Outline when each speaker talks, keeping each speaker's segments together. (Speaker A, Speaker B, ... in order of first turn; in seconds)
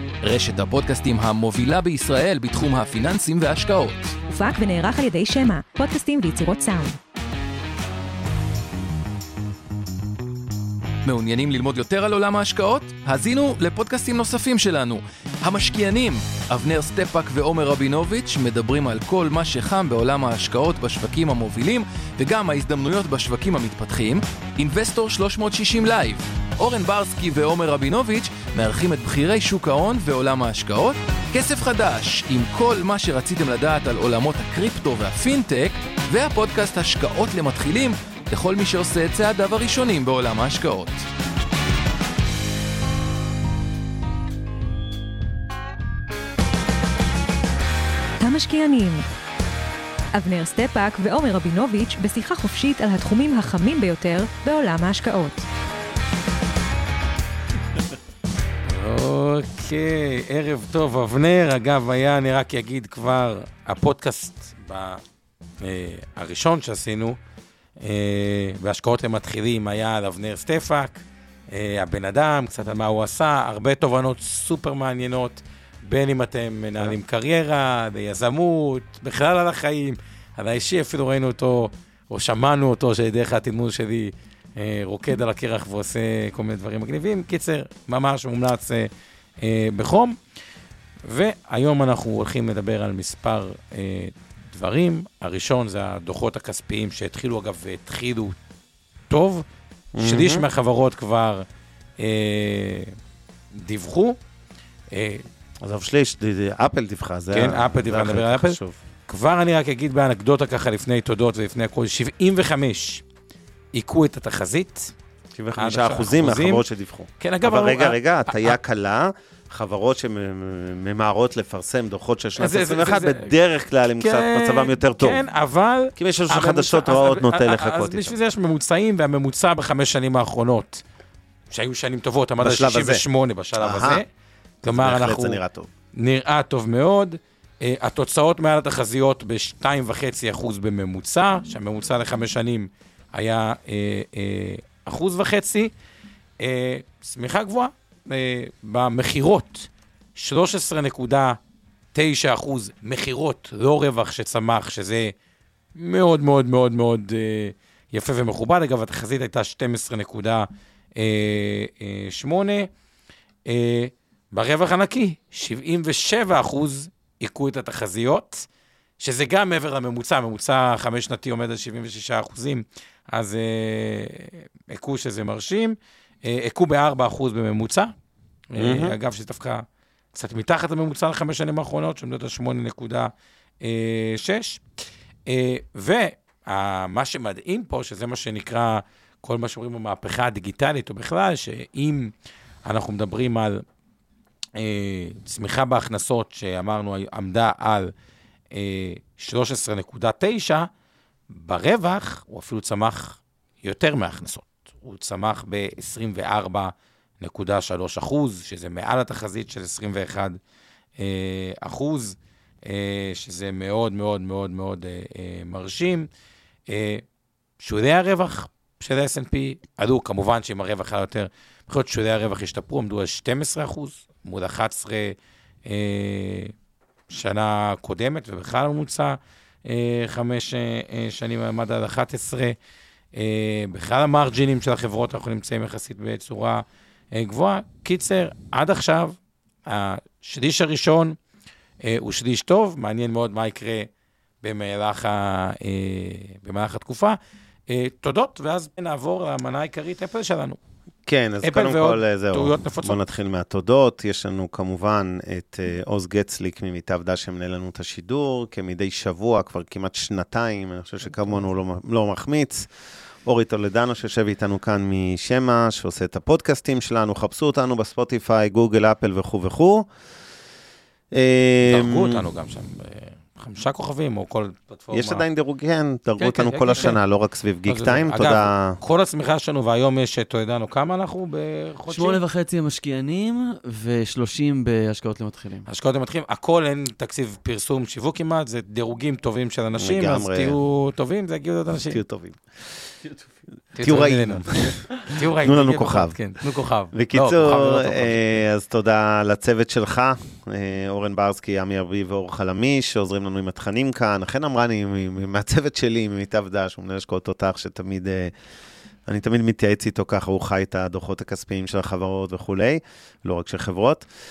Speaker A: 0.2-4.2, 11.0-41.1
Speaker B: 4.3-7.0, 48.2-49.0, 50.1-55.4
Speaker C: 58.7-65.0, 65.6-67.2, 67.8-90.2, 91.0-98.4, 99.1-99.4, 100.0-101.5, 102.0-102.9, 103.5-104.2, 104.9-105.2, 107.3-113.0, 113.7-114.9, 115.5-116.6, 117.2-118.6, 122.4-123.3, 124.0-130.8, 131.5-134.1, 134.6-135.4, 135.9-145.7, 146.4-151.4, 151.9-155.1, 155.7-162.7, 163.4-168.5, 169.0-177.9, 178.5-184.6, 185.3-192.1, 192.6-193.6, 194.6-197.9, 198.5-200.7, 201.3-210.4, 211.0-216.1, 216.7-217.0, 217.6-226.5, 227.1-232.6, 233.1-241.2, 241.8-243.9, 244.4-250.6, 251.4-253.0, 271.6-275.2, 276.2-277.0, 277.6-282.2, 285.7-292.0, 293.8-298.4
Speaker D: 99.9-100.4, 105.6-108.8, 115.3-125.2, 126.0-128.2, 132.4-133.0, 133.6-134.0, 134.7-135.7, 178.6-178.9, 251.1-262.7, 263.2-269.9, 271.1-272.2, 274.9-278.8, 289.7-290.6, 291.9-292.8, 293.8-296.4, 296.9-308.3, 309.1-314.1
Speaker E: 281.9-285.7